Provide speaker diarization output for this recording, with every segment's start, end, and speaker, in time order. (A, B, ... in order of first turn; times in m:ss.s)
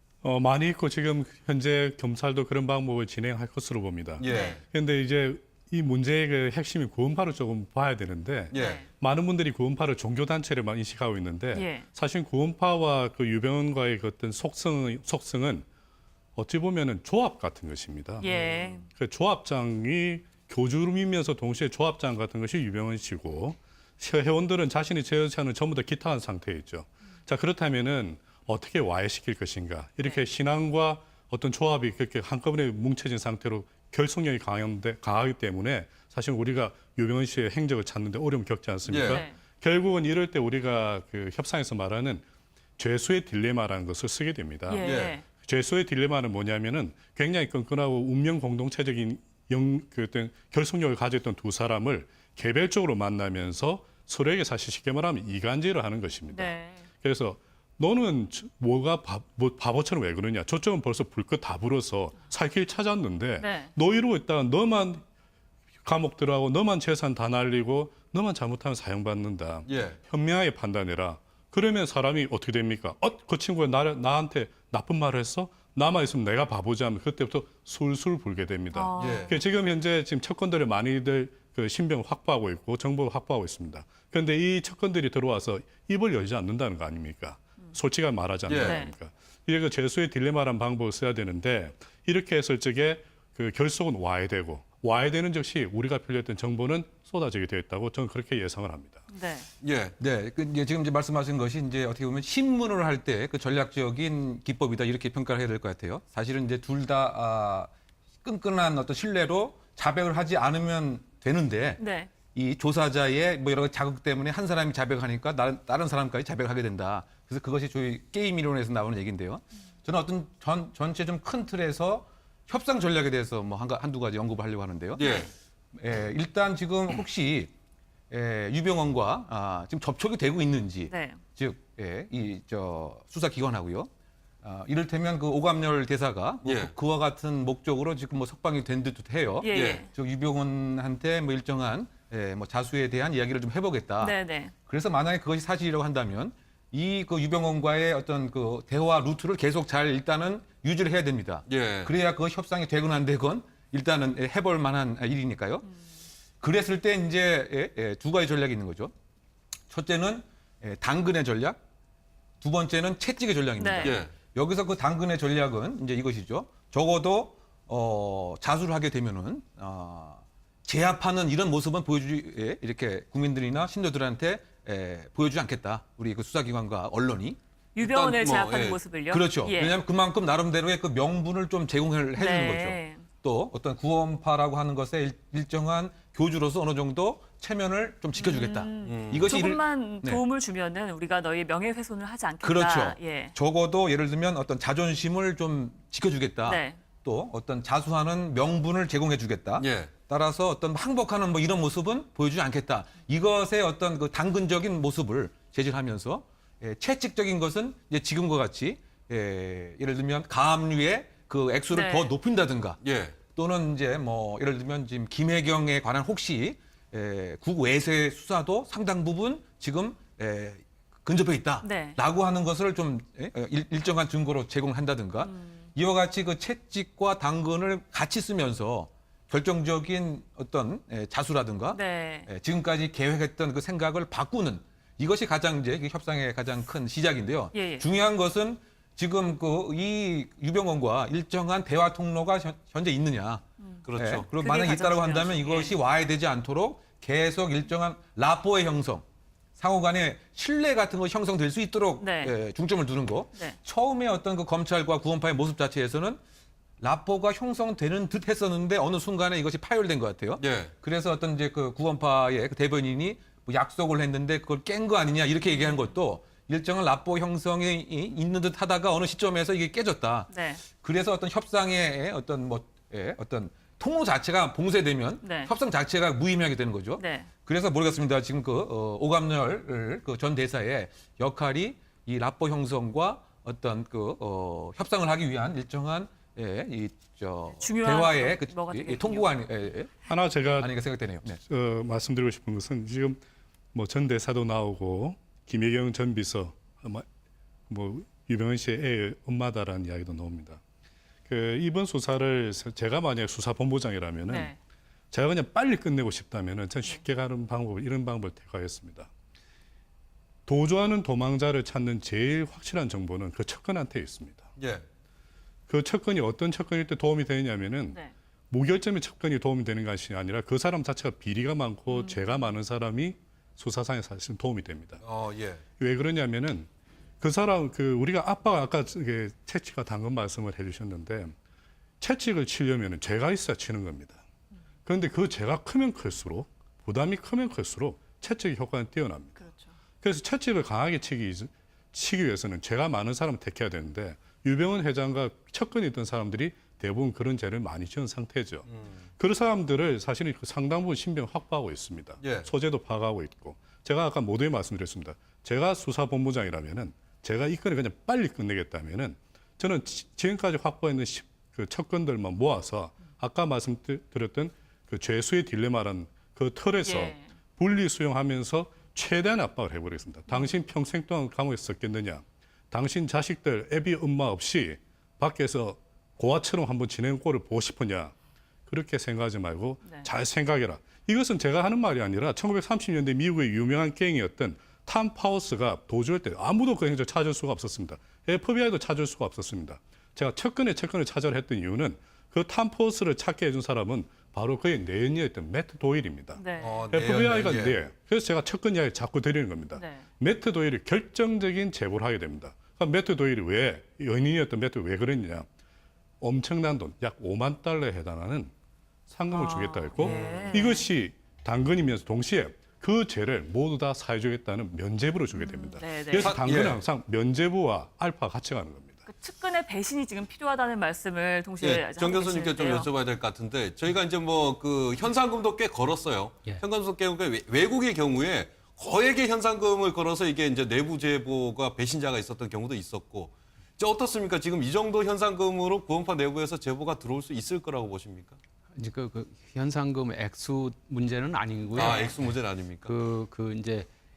0:00.2-0:15.6 A
0:04.2-0:04.6 B
0:04.2-0:04.6 C
0:08.5-0:08.8 B
0:08.5-0:08.8 C
0:11.5-0:11.8 C
0:16.4-0:42.2 A
0:18.2-0:18.9 C
0:18.3-0:18.6 B
0:38.8-0:39.2 B
0:39.1-0:39.3 C
0:42.8-1:05.0 A
0:44.7-0:45.2 C
0:44.8-0:45.2 B
0:56.3-0:56.9 C
1:03.4-1:03.7 C
1:05.8-1:39.0 A
1:09.6-1:10.0 B
1:18.7-1:19.2 C
1:19.0-1:19.4 B
1:28.5-1:28.8 B
1:28.6-1:28.9 C
1:39.1-1:39.5 C
1:39.6-1:39.9 B
1:40.0-1:47.7 D
1:48.2-2:07.5 D
1:51.8-1:52.1 C
2:05.0-2:05.3 B
2:05.0-2:05.3 C
2:08.1-2:13.9 D
2:10.9-2:11.2 C
2:14.4-2:35.7 D
2:16.4-2:16.7 B
2:19.4-2:19.9 C
2:19.5-2:19.8 B
2:24.0-2:24.5 C
2:31.5-2:31.9 B
2:36.4-2:38.9 D
2:39.7-2:41.6 D
2:42.4-2:57.4 D
2:43.6-2:44.0 C
2:43.8-2:44.1 B
2:57.8-2:59.8 C
2:57.8-2:58.8 B
2:59.1-3:10.2 D
3:02.2-3:03.0 C
3:08.2-3:13.3 C
3:08.8-3:09.3 B
3:12.4-3:32.8 D
3:16.4-3:16.8 C
3:19.6-3:19.9 B
3:31.7-3:32.1 C
3:32.8-3:33.2 B
3:33.3-4:03.4 D
3:41.6-3:42.0 C
3:45.2-3:45.6 C
3:51.7-3:52.3 C
3:57.5-3:57.8 C
4:03.6-4:05.7 C
4:03.8-4:04.3 B
4:03.9-4:09.0 D
4:09.6-4:16.2 D
4:12.0-4:12.3 C
4:16.8-4:49.9 D
4:20.4-4:20.7 B
4:30.3-4:30.6 C
4:35.2-4:35.5 C
4:37.0-4:37.3 C
4:47.6-4:49.4 C
4:50.0-4:53.2 A
4:50.5-4:51.4 D
4:53.7-4:57.0 A
4:57.7-5:00.6 A
5:01.3-5:04.5 A
5:04.3-5:04.6 C
5:05.1-5:09.1 A
5:10.4-5:14.5 A
5:14.6-5:14.8 B
5:15.7-5:25.0 A
5:21.9-5:22.4 C
5:25.0-5:25.6 B
5:25.8-5:26.7 A
5:27.2-5:31.4 A
5:32.0-5:34.2 A
5:34.8-5:39.4 A
5:39.4-5:39.7 C
5:40.0-5:48.7 A
5:48.7-5:49.0 B
5:49.2-6:18.1 A
5:52.2-5:52.5 B
6:06.8-6:07.3 C
6:18.7-6:45.5 A
6:36.4-6:36.8 C
6:36.6-6:37.8 B
6:39.8-6:40.0 C
6:46.2-6:48.5 A
6:49.1-6:59.0 A
6:49.3-6:50.8 C
6:50.0-6:50.8 B
6:55.3-6:56.4 C
6:56.1-6:56.8 B
6:59.1-7:02.9 C
7:01.6-7:18.4 B
7:18.7-7:23.9 E
7:21.7-7:23.0 B